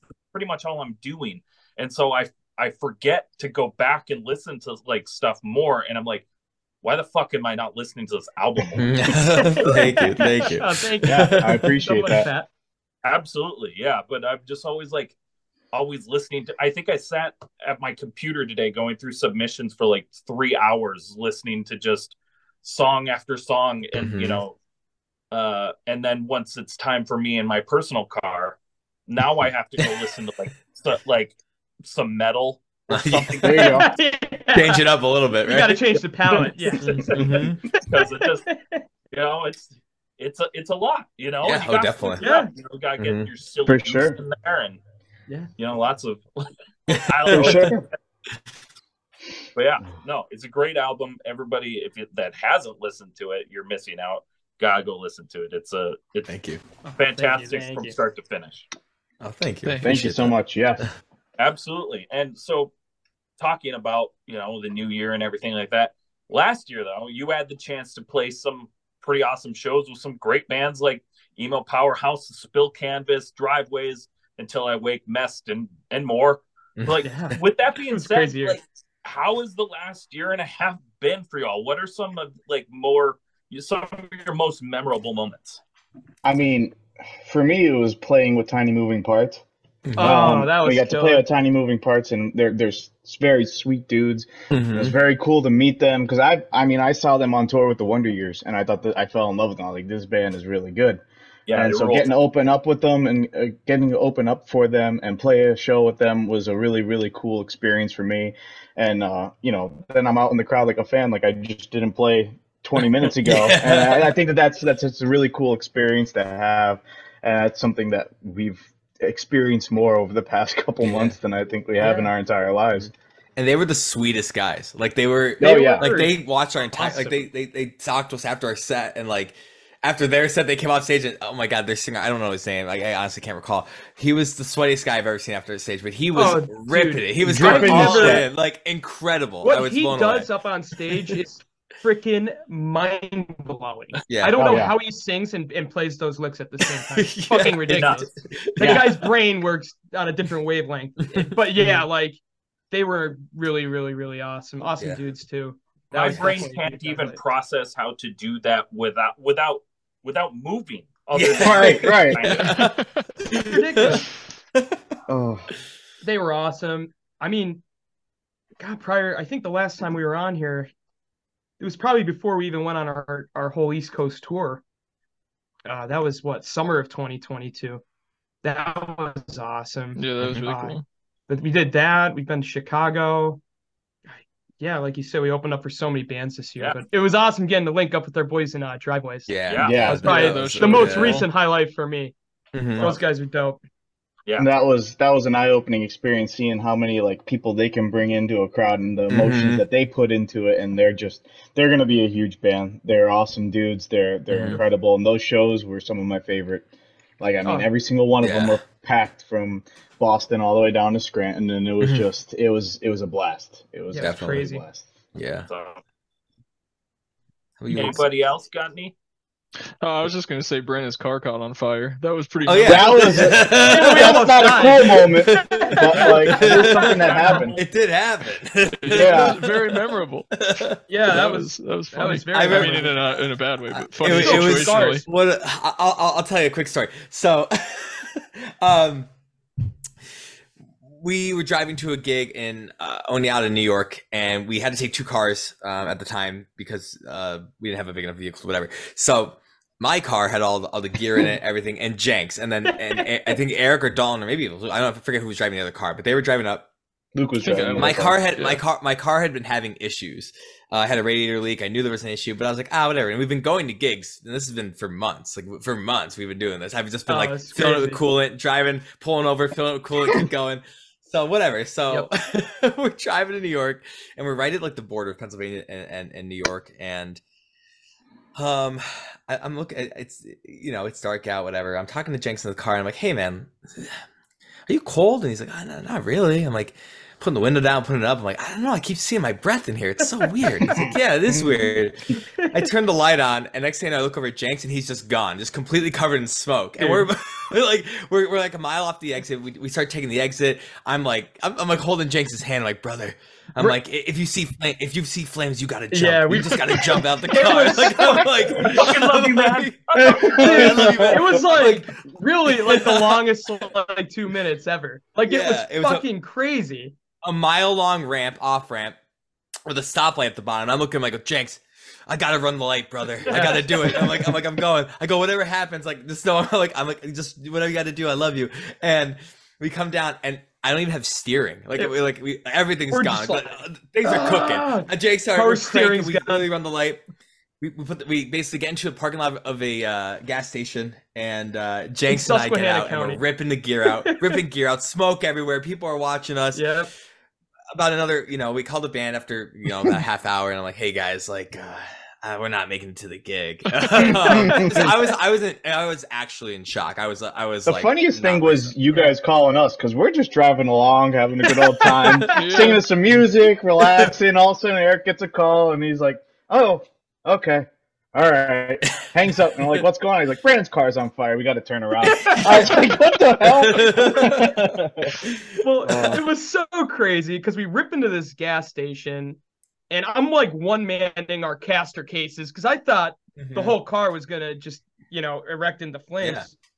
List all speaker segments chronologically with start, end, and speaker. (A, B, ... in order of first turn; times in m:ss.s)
0:00.3-0:06.2 A
0:06.8-0:09.2 A
0:08.8-0:11.4 B
0:09.4-0:12.5 C
0:11.0-0:12.3 D
0:13.0-0:15.2 A
0:15.7-0:24.6 A
0:24.0-0:24.4 B
0:25.3-0:33.9 A
0:32.9-0:33.6 B
0:33.4-0:33.9 D
0:33.8-0:34.8 C
0:34.5-0:36.0 B
0:35.4-0:38.8 C
0:36.3-0:38.5 A
0:37.1-0:37.6 B
0:39.1-0:44.8 A
0:41.4-0:42.2 B
0:42.2-0:42.5 C
0:43.0-0:43.3 B
0:43.6-0:44.2 D
0:45.6-0:47.9 A
0:46.9-0:47.7 B
0:47.3-0:47.8 D
0:49.6-0:56.3 A
0:56.3-0:56.6 B
0:56.8-0:57.9 C
0:57.0-0:58.6 A
0:59.2-1:00.9 B
0:59.6-1:00.0 E
0:59.8-1:00.8 D
1:01.4-1:02.7 A
1:03.4-1:25.6 A
1:16.8-1:17.0 B
1:17.0-1:17.4 C
1:17.9-1:18.6 C
1:26.2-1:29.4 D
1:29.8-1:30.4 B
1:30.0-1:31.2 C
1:30.0-1:41.0 D
1:34.5-1:34.9 B
1:41.5-1:42.1 A
1:41.5-2:02.9 D
1:52.8-1:54.1 B
2:00.8-2:01.1 B
2:01.8-2:02.1 C
2:03.4-2:20.3 B
2:05.4-2:05.9 D
2:05.4-2:06.1 C
2:06.7-2:07.2 C
2:16.1-2:18.2 C
2:17.2-2:18.2 D
2:19.4-2:32.2 C
2:24.1-2:24.7 B
2:24.4-2:24.7 D
2:26.6-2:29.0 B
2:27.4-2:28.0 A
2:28.6-2:28.9 D
2:31.1-2:31.8 B
2:32.7-2:37.2 C
2:35.9-2:42.6 A
2:36.0-2:36.4 B
2:41.1-2:44.6 B
2:41.3-2:42.2 D
2:42.4-2:43.0 E
2:43.5-2:44.0 C
2:45.1-2:45.5 D
2:46.0-2:47.6 C
2:48.6-2:50.7 C
2:51.6-2:54.6 C
2:55.6-2:57.8 C
2:58.4-3:03.4 C
3:00.0-3:00.8 E
3:04.1-3:09.3 C
3:06.6-3:06.8 A
3:09.3-3:11.2 B
3:09.5-3:09.8 A
3:09.6-3:10.1 D
3:09.8-3:11.3 E
3:10.0-3:12.1 C
3:12.5-3:13.0 B
3:12.8-3:13.0 A
3:12.8-3:13.6 C
3:14.4-3:26.7 D
3:19.1-3:19.6 B
3:24.3-3:24.6 B
3:27.2-3:34.9 D
3:27.4-3:27.7 C
3:28.2-3:28.6 B
3:33.9-3:34.6 C
3:34.0-3:34.5 B
3:35.1-3:35.5 B
3:35.5-3:35.8 A
3:37.6-3:38.1 B
3:37.7-3:38.9 A
3:39.8-3:43.4 E
3:42.4-3:50.7 B
3:42.6-3:47.6 D
3:43.6-3:47.4 C
3:46.0-3:47.6 A
3:48.8-3:55.0 E
3:48.9-3:49.4 D
3:50.9-3:53.0 C
3:52.3-3:52.9 B
3:53.7-3:59.1 B
3:54.1-3:55.0 C
4:00.9-4:16.7 B
4:17.1-4:18.2 D
4:17.4-4:18.6 E
4:17.8-4:37.2 B
4:27.1-4:28.1 C
4:38.3-4:44.0 B
4:44.7-5:12.0 B
4:50.7-4:51.7 D
4:56.8-4:57.1 C
5:05.9-5:08.8 C
5:08.6-5:10.4 A
5:09.9-5:11.2 D
5:10.4-5:16.9 C
5:12.6-5:13.2 B
5:15.2-5:16.0 B
5:17.2-5:19.0 B
5:19.6-5:37.0 B
5:23.3-5:24.3 C
5:32.9-5:36.5 C
5:37.6-5:46.7 B
5:42.1-5:43.2 C
5:43.8-5:44.4 C
5:46.5-5:46.9 C
5:47.7-5:58.8 B
5:53.8-5:54.1 E
5:54.2-5:54.9 D
5:57.7-6:15.2 D
6:01.8-6:02.1 C
6:02.3-6:02.8 E
6:12.0-6:12.5 C
6:12.3-6:12.9 B
6:13.4-6:16.2 B
6:15.6-6:19.4 C
6:15.9-6:16.2 D
6:19.9-6:26.5 C
6:23.4-6:23.8 B
6:26.2-6:26.5 B